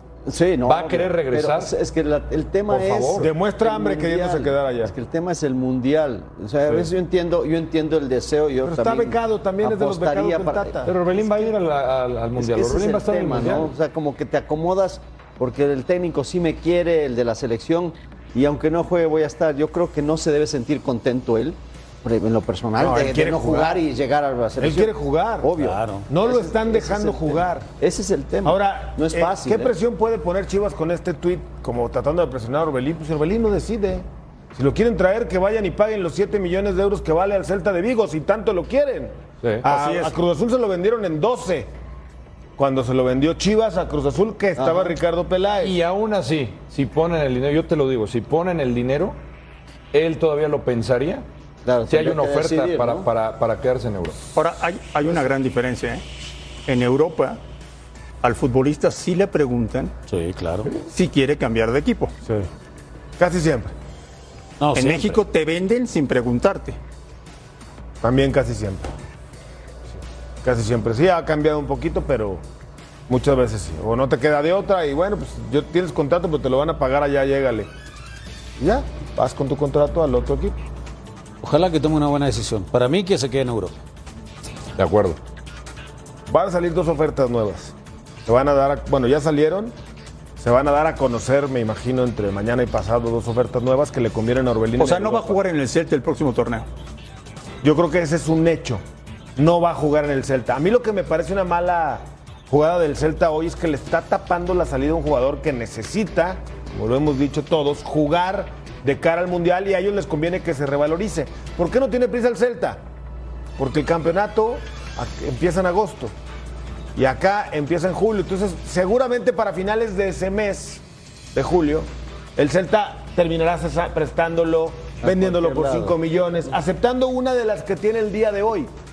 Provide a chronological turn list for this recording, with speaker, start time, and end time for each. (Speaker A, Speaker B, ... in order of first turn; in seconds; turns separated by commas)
Speaker A: 0.3-10.8, Speaker B: 0.7-1.7, Speaker B: 2.7-3.3, Speaker C: 3.2-4.9, Speaker C: 8.7-10.9, Speaker B: 10.9-13.7, Speaker A: 12.4-29.7, Speaker C: 22.8-23.8, Speaker C: 24.6-25.5, Speaker D: 25.6-26.1, Speaker C: 26.1-27.7, Speaker C: 28.4-41.7, Speaker E: 39.7-40.1, Speaker C: 42.6-45.8, Speaker A: 44.6-45.0, Speaker B: 45.6-49.2, Speaker B: 49.9-51.3, Speaker A: 51.6-53.1, Speaker B: 51.9-54.2, Speaker E: 54.4-56.0, Speaker E: 56.7-57.4, Speaker E: 58.2-59.9, Speaker D: 60.1-60.7, Speaker E: 60.8-62.1, Speaker C: 63.2-63.7, Speaker D: 64.6-65.2, Speaker E: 64.8-66.8, Speaker C: 68.0-68.9, Speaker C: 70.4-72.4, Speaker C: 73.1-77.7, Speaker C: 78.6-80.6, Speaker D: 81.4-83.8, Speaker B: 84.8-85.2, Speaker C: 86.3-87.7, Speaker C: 88.2-89.7, Speaker C: 90.4-95.4, Speaker E: 94.8-96.7, Speaker C: 97.6-98.8, Speaker C: 99.4-112.8, Speaker C: 113.6-116.1, Speaker C: 117.0-120.8, Speaker C: 121.3-128.7, Speaker A: 125.0-126.0